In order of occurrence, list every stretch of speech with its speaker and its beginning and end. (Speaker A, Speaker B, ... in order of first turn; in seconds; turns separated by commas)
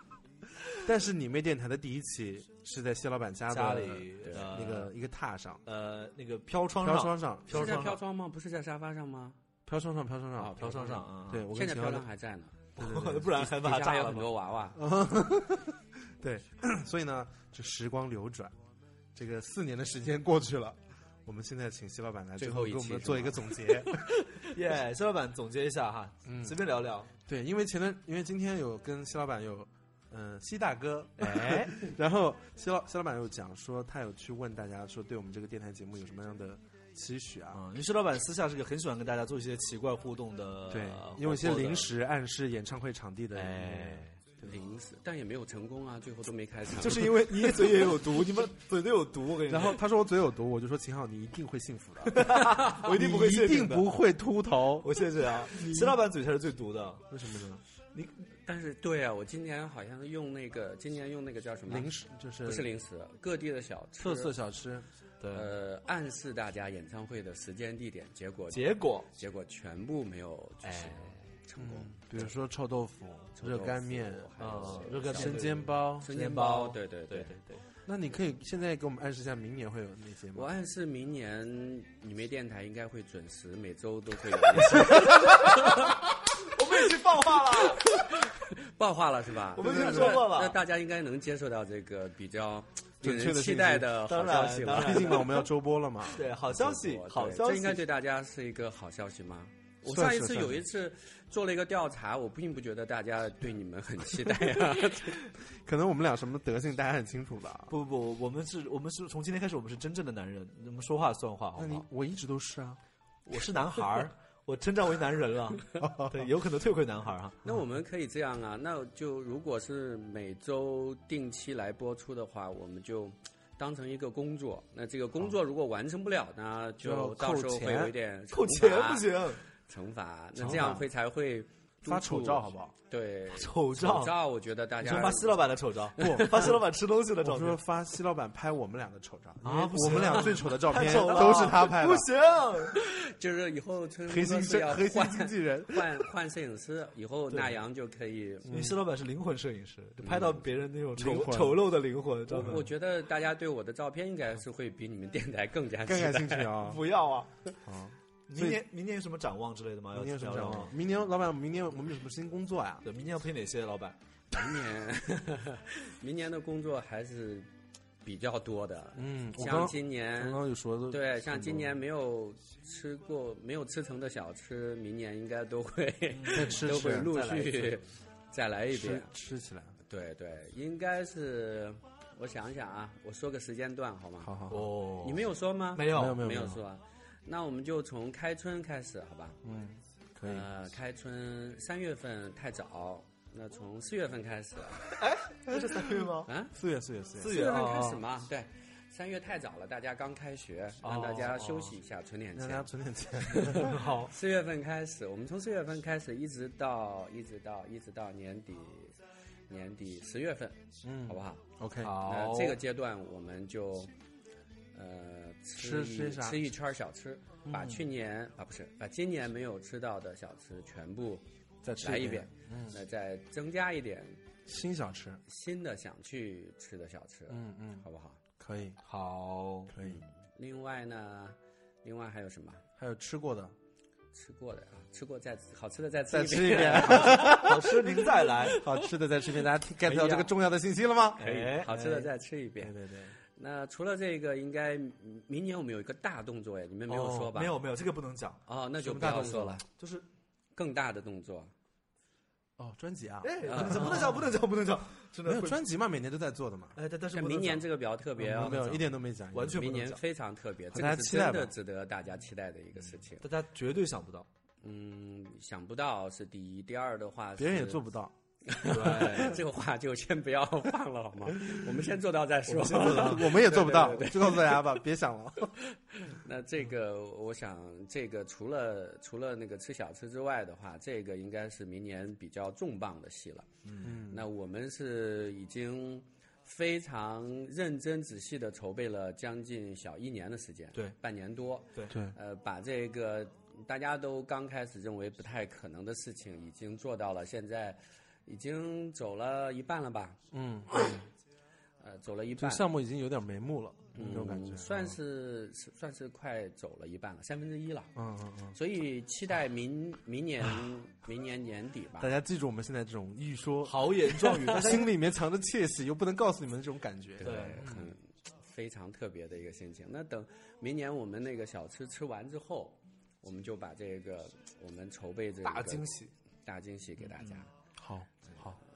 Speaker A: 0.8-5.6, Speaker B: 3.5-4.9, Speaker B: 5.7-8.0, Speaker A: 6.8-7.7, Speaker C: 7.5-9.4, Speaker A: 9.7-10.7, Speaker C: 10.4-14.8, Speaker B: 10.6-11.5, Speaker A: 11.3-12.1, Speaker B: 12.8-14.3, Speaker A: 12.8-13.2, Speaker A: 14.7-18.6, Speaker A: 19.1-24.1, Speaker C: 22.4-23.8, Speaker B: 24.5-27.1, Speaker A: 26.3-26.6, Speaker A: 27.3-37.6, Speaker B: 31.2-31.8, Speaker B: 37.5-41.9, Speaker A: 40.7-44.6, Speaker B: 43.3-44.2, Speaker C: 44.4-47.4, Speaker B: 46.8-49.8, Speaker A: 49.5-54.9, Speaker B: 52.1-53.9, Speaker B: 54.8-57.1, Speaker A: 57.1-57.6, Speaker B: 57.9-58.3, Speaker C: 58.5-61.9, Speaker A: 61.7-62.7, Speaker C: 62.4-64.3, Speaker A: 64.0-64.9, Speaker B: 65.2-65.5, Speaker C: 65.3-72.3, Speaker B: 68.5-69.1, Speaker B: 70.6-71.2, Speaker A: 71.6-76.1, Speaker C: 73.4-77.4, Speaker B: 74.4-77.7, Speaker A: 77.9-80.5, Speaker C: 80.3-86.0, Speaker B: 86.4-87.9, Speaker C: 88.8-95.4, Speaker B: 89.5-90.6, Speaker A: 89.6-90.2, Speaker A: 93.0-94.0, Speaker B: 94.1-95.4, Speaker A: 94.7-96.2, Speaker B: 96.1-97.8, Speaker C: 96.3-105.2, Speaker A: 99.9-100.7, Speaker A: 105.6-107.7, Speaker B: 107.7-111.9, Speaker A: 111.6-112.8, Speaker B: 113.3-117.4, Speaker A: 115.8-116.3, Speaker C: 117.4-136.6, Speaker A: 126.8-127.9, Speaker B: 128.3-129.4, Speaker A: 130.4-130.9, Speaker A: 131.8-132.7, Speaker B: 133.3-134.2, Speaker B: 134.8-137.6, Speaker A: 136.0-136.5, Speaker A: 137.2-142.1, Speaker B: 139.4-142.8, Speaker C: 142.8-148.5, Speaker A: 144.1-145.9, Speaker B: 147.3-147.6, Speaker A: 148.5-148.8, Speaker B: 148.5-152.7, Speaker C: 150.0-150.5, Speaker A: 151.0-151.7, Speaker C: 152.3-156.6, Speaker A: 152.3-152.7, Speaker A: 155.8-156.8, Speaker B: 156.6-157.3, Speaker A: 157.6-158.7, Speaker B: 158.3-160.8, Speaker A: 159.9-162.8, Speaker B: 162.8-164.0, Speaker C: 164.3-167.5, Speaker C: 168.0-179.1, Speaker A: 169.0-171.8, Speaker B: 176.1-176.6, Speaker A: 176.3-177.5, Speaker A: 178.7-179.8, Speaker C: 179.9-184.3, Speaker A: 184.2-184.7, Speaker B: 184.5-186.3, Speaker C: 185.0-189.4, Speaker A: 185.9-186.6, Speaker A: 189.4-190.5, Speaker C: 190.2-194.9, Speaker B: 194.9-196.3, Speaker A: 195.6-197.4, Speaker C: 196.2-196.5, Speaker B: 197.2-198.0, Speaker C: 197.3-202.7, Speaker B: 200.8-201.8, Speaker A: 202.3-203.8, Speaker B: 203.3-204.1, Speaker C: 203.3-208.9, Speaker C: 209.5-213.9, Speaker A: 210.8-212.0, Speaker B: 211.8-212.6, Speaker C: 214.7-221.2, Speaker A: 215.6-216.5, Speaker A: 217.5-217.9, Speaker A: 221.6-222.8, Speaker C: 221.8-224.2, Speaker A: 224.5-225.2, Speaker C: 225.3-228.2, Speaker A: 227.3-228.8, Speaker B: 228.8-229.7, Speaker A: 229.7-230.0, Speaker C: 229.8-232.6, Speaker A: 232.8-233.5, Speaker C: 234.1-237.4, Speaker A: 236.1-237.9, Speaker B: 236.9-238.6, Speaker C: 238.3-238.8, Speaker A: 238.5-241.3, Speaker B: 239.8-240.3, Speaker B: 241.2-242.1, Speaker C: 241.2-242.8, Speaker A: 242.6-243.2, Speaker C: 243.3-247.6, Speaker B: 246.9-250.1, Speaker C: 248.5-249.6, Speaker A: 248.8-249.6, Speaker C: 250.6-251.5, Speaker A: 252.6-254.1, Speaker B: 253.2-255.7, Speaker C: 253.4-254.3, Speaker A: 255.2-256.8, Speaker B: 256.8-257.7, Speaker C: 257.1-258.8, Speaker A: 258.2-259.7, Speaker B: 258.2-260.0, Speaker C: 259.5-263.3, Speaker A: 260.7-261.5, Speaker B: 263.2-264.3, Speaker C: 264.6-267.8, Speaker A: 267.4-268.1, Speaker C: 268.5-274.8, Speaker B: 268.7-269.4, Speaker B: 272.5-273.4, Speaker A: 272.7-275.6, Speaker C: 275.9-283.5, Speaker B: 283.6-284.0, Speaker A: 283.8-284.3, Speaker C: 284.1-300.2, Speaker A: 291.9-292.2, Speaker A: 300.3-301.1, Speaker C: 301.8-302.7, Speaker A: 302.4-305.0, Speaker C: 303.9-307.9, Speaker A: 308.0-308.6, Speaker C: 308.5-312.1, Speaker A: 312.0-317.9, Speaker B: 313.6-314.9, Speaker C: 317.2-327.5, Speaker B: 317.2-317.7, Speaker B: 325.4-326.1, Speaker B: 327.1-327.4, Speaker A: 327.8-328.6